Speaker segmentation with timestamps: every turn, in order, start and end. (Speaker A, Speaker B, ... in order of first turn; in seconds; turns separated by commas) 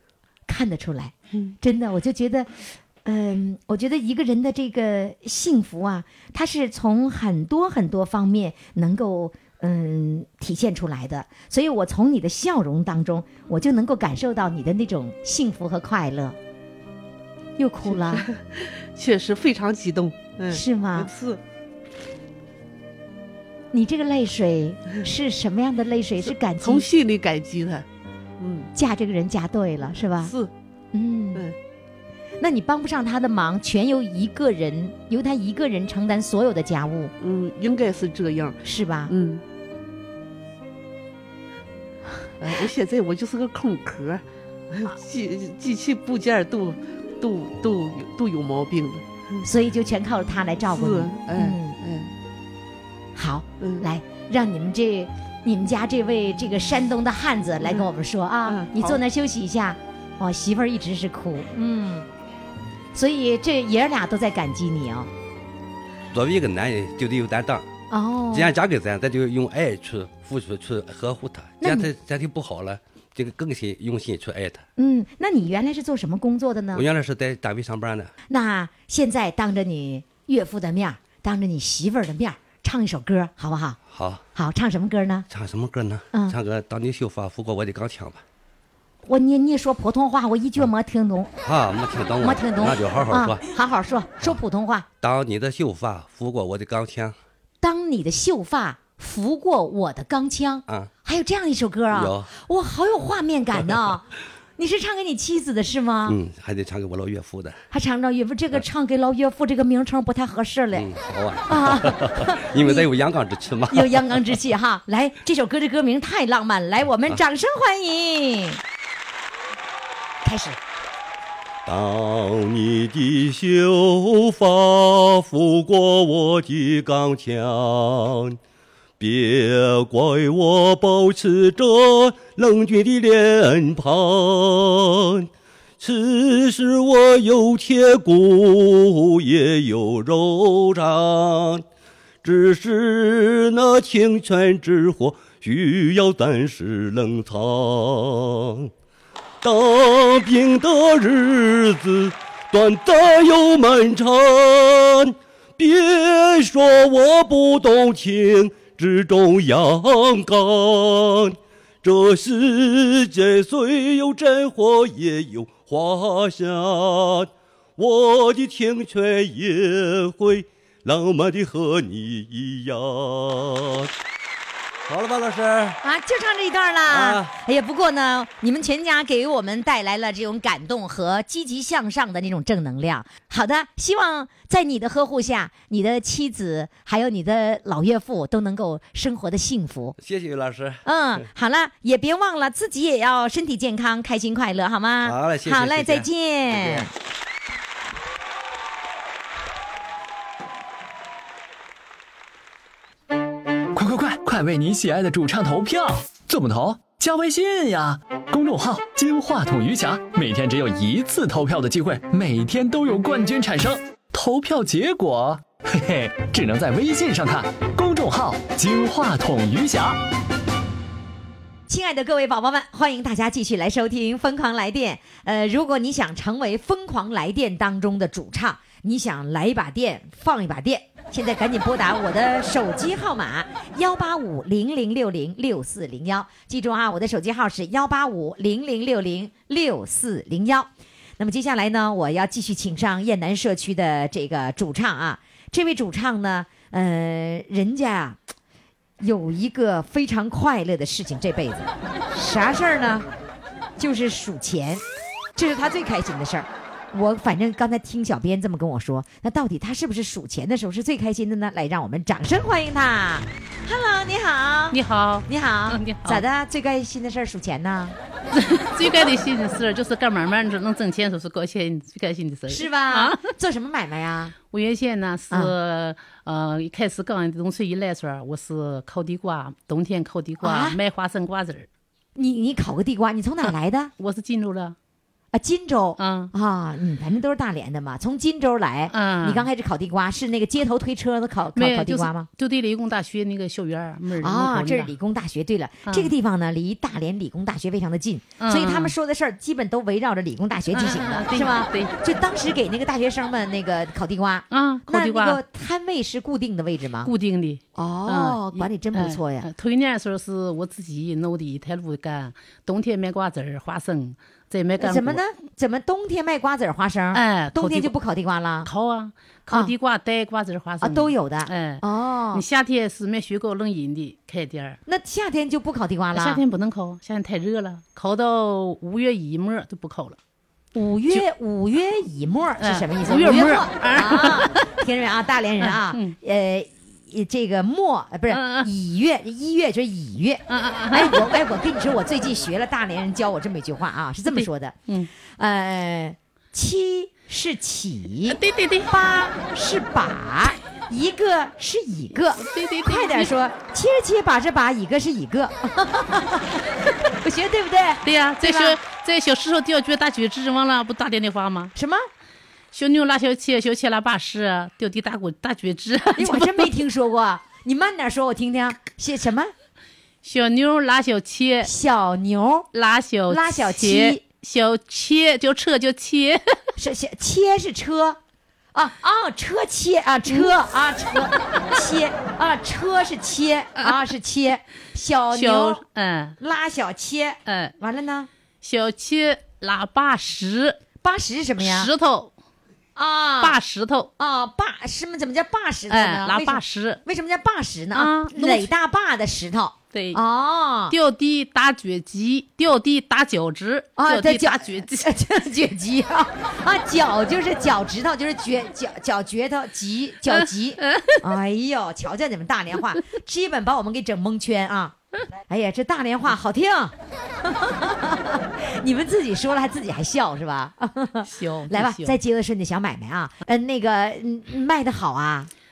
Speaker A: 0.5-2.5, Speaker A: 3.0-16.4, Speaker A: 17.6-18.3, Speaker B: 17.9-21.4, Speaker A: 20.5-21.1, Speaker A: 23.7-26.9, Speaker B: 26.2-27.9, Speaker B: 28.4-28.7, Speaker A: 28.8-30.3, Speaker B: 30.2-30.5, Speaker A: 30.9-31.5, Speaker A: 32.4-37.1, Speaker B: 37.2-39.4, Speaker A: 38.6-39.1, Speaker B: 42.4-49.4, Speaker A: 49.4-51.8, Speaker B: 50.7-52.1, Speaker A: 53.2-62.1, Speaker B: 53.6-53.9, Speaker B: 58.5-59.0, Speaker A: 63.0-65.1, Speaker C: 66.1-67.7, Speaker A: 67.9-68.5, Speaker C: 68.3-74.6, Speaker A: 71.6-71.9, Speaker A: 74.8-76.8, Speaker C: 76.7-78.1, Speaker A: 78.3-83.8, Speaker C: 83.9-84.2, Speaker A: 84.3-85.3, Speaker C: 85.3-88.2, Speaker A: 89.1-91.3, Speaker C: 91.4-93.4, Speaker A: 92.2-94.9, Speaker C: 95.0-97.2, Speaker A: 97.6-104.1, Speaker C: 101.9-102.3, Speaker A: 104.6-106.2, Speaker C: 106.1-107.6, Speaker A: 107.7-110.9, Speaker C: 110.7-114.2, Speaker A: 111.5-112.9, Speaker A: 113.7-118.6, Speaker A: 120.2-120.6, Speaker C: 121.7-128.4, Speaker C: 129.0-135.3, Speaker C: 135.8-141.6, Speaker C: 142.2-148.7, Speaker C: 149.4-173.9, Speaker C: 174.9-175.8, Speaker A: 175.8-190.0, Speaker C: 176.9-177.3, Speaker C: 190.0-190.8, Speaker A: 190.8-196.9, Speaker C: 195.0-196.9, Speaker D: 203.7-220.0, Speaker A: 221.7-248.2, Speaker A: 249.0-253.1, Speaker A: 253.8-254.8, Speaker A: 255.4-268.0, Speaker E: 264.7-266.2, Speaker E: 268.3-273.2, Speaker A: 272.5-274.4, Speaker E: 274.5-281.7, Speaker A: 280.4-280.8, Speaker A: 282.2-283.9, Speaker E: 284.0-284.8, Speaker A: 285.3-292.3, Speaker E: 286.0-286.3, Speaker E: 288.9-289.5, Speaker E: 291.6-294.9, Speaker A: 294.2-307.1, Speaker E: 295.9-296.1, Speaker E: 298.4-298.9, Speaker E: 300.7-301.9, Speaker E: 304.5-305.4, Speaker E: 307.0-315.2, Speaker A: 307.8-309.5, Speaker A: 314.8-318.7, Speaker E: 317.1-317.9, Speaker E: 318.6-324.8, Speaker A: 320.8-322.4, Speaker A: 324.9-326.4, Speaker E: 326.1-330.2, Speaker A: 330.8-344.8, Speaker E: 332.6-334.7, Speaker E: 335.6-336.2, Speaker E: 338.3-338.7, Speaker E: 340.5-341.3, Speaker E: 344.3-345.1, Speaker A: 345.4-358.8, Speaker E: 348.3-348.9, Speaker E: 352.4-353.3, Speaker E: 358.0-361.7, Speaker A: 361.8-362.1, Speaker E: 362.7-366.7, Speaker A: 366.1-369.5, Speaker E: 370.2-371.7, Speaker A: 371.6-372.7, Speaker E: 372.7-376.6, Speaker A: 373.3-374.2, Speaker A: 376.8-378.2, Speaker A: 378.7-385.8, Speaker E: 385.3-386.4, Speaker A: 386.4-388.3, Speaker E: 387.5-387.7, Speaker E: 388.6-390.8, Speaker A: 391.0-391.9, Speaker E: 391.6-392.3, Speaker A: 393.0-393.6, Speaker E: 393.4-394.1, Speaker A: 394.2-400.9, Speaker E: 395.9-397.0, Speaker E: 397.9-398.7, Speaker E: 399.9-400.2, Speaker E: 400.9-405.1, Speaker A: 404.0-415.0, Speaker E: 410.9-411.2, Speaker A: 415.5-425.5, Speaker E: 421.3-422.2